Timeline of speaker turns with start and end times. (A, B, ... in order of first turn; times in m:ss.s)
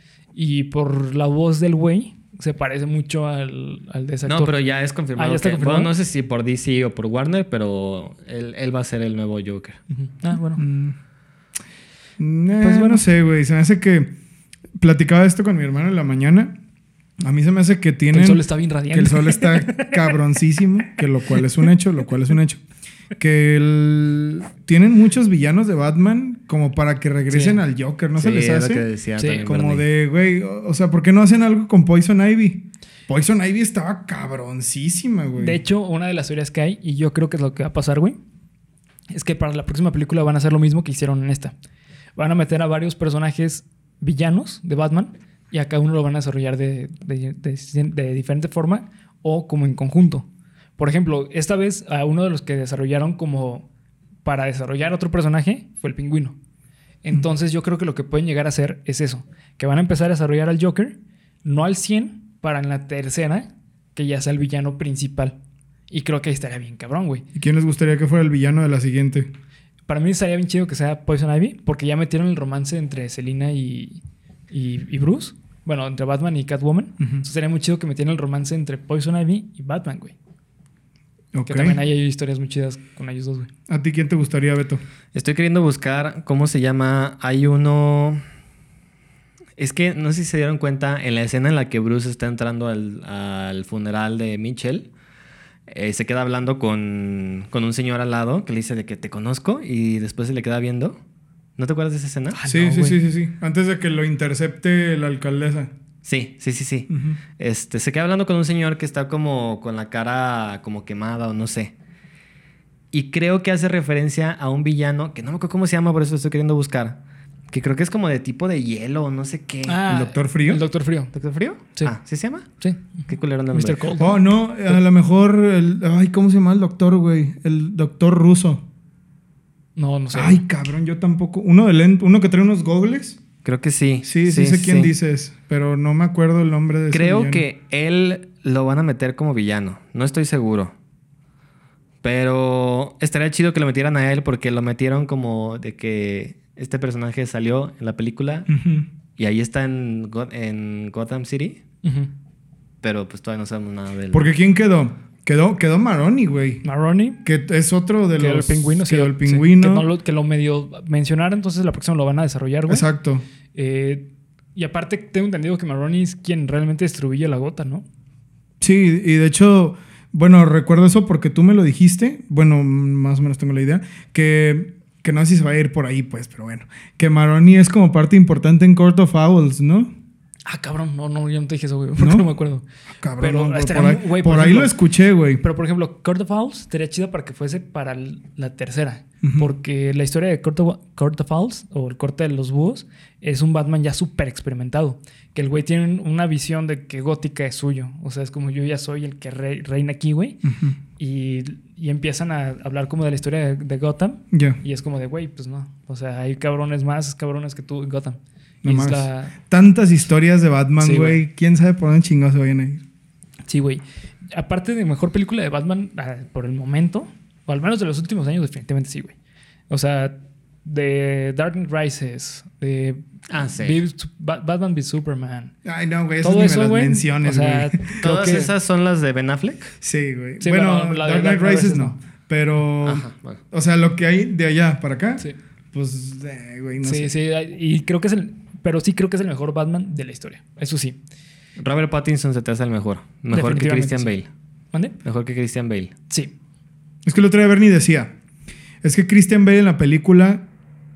0:00.3-0:04.5 A
0:04.2-0:09.8 B
0:05.2-0:05.9 A
0:09.9-0:10.6 A
0:10.6-0:11.0 C
0:12.2-0:14.1 C
0:12.6-0:13.0 A
0:14.8-0:16.5 C
0:17.2-0:22.6 C
0:18.1-0:20.2 A
0:23.2-0:28.8 C
0:27.3-0:27.6 A
0:28.2-0:29.8 B
0:29.2-0:29.4 A
0:29.4-0:35.6 C
0:35.4-0:38.2 A
0:39.1-0:41.5 A
0:42.2-0:50.3 A
0:50.8-0:53.6 A
0:54.2-0:56.4 A
0:57.0-1:05.4 A
1:05.9-1:07.2 A
1:07.3-1:09.3 C
1:09.9-1:20.1 A
1:21.3-1:21.8 C
1:21.4-1:23.5 A
1:23.7-1:24.8 C
1:25.1-1:28.2 B
1:29.6-1:34.9 B
1:35.7-1:41.0 B
1:41.6-1:42.4 B
1:42.3-1:43.0 A
1:42.5-1:45.7 C
1:46.0-1:51.7 B
1:46.9-1:47.2 C
1:52.9-1:57.0 B
1:57.5-1:59.8 B
1:59.6-2:01.1 A
1:59.8-2:00.6 C
2:01.1-2:03.9 B
2:02.6-2:04.2 A
2:04.0-2:08.6 C
2:09.8-2:10.4 A
2:10.1-2:13.2 C
2:13.4-2:14.9 B
2:14.0-2:17.4 C
2:16.9-2:20.7 B
2:22.0-2:28.5 B
2:28.5-2:28.9 C
2:29.2-2:31.6 B
2:31.8-2:32.1 A
2:32.8-2:34.3 B
2:34.1-2:36.6 C
2:36.6-2:37.2 A
2:37.2-2:39.9 C
2:38.2-2:42.9 A
2:42.7-2:43.2 C
2:43.5-2:47.8 A
2:48.6-2:59.9 C
3:00.4-3:02.7 A
3:02.0-3:02.3 C
3:03.0-3:05.4 C
3:03.2-3:04.7 A
3:05.4-3:20.4 A
3:09.2-3:09.5 C
3:20.4-3:20.8 C
3:21.0-3:29.3 A
3:24.3-3:24.6 C
3:28.6-3:32.8 C
3:30.8-3:31.2 A
3:33.5-3:39.1 A
3:39.7-3:43.0 A
3:43.3-3:43.8 B
3:43.6-3:45.5 A
3:45.6-3:48.0 C
3:46.2-3:48.5 A
3:48.0-3:49.7 B
3:49.8-3:57.1 C
3:50.4-3:52.0 A
3:52.8-3:53.4 B
3:56.8-4:01.0 A
4:01.6-4:04.3 B
4:03.3-4:04.1 A
4:05.0-4:05.9 B
4:07.0-4:08.1 C
4:08.8-4:10.4 C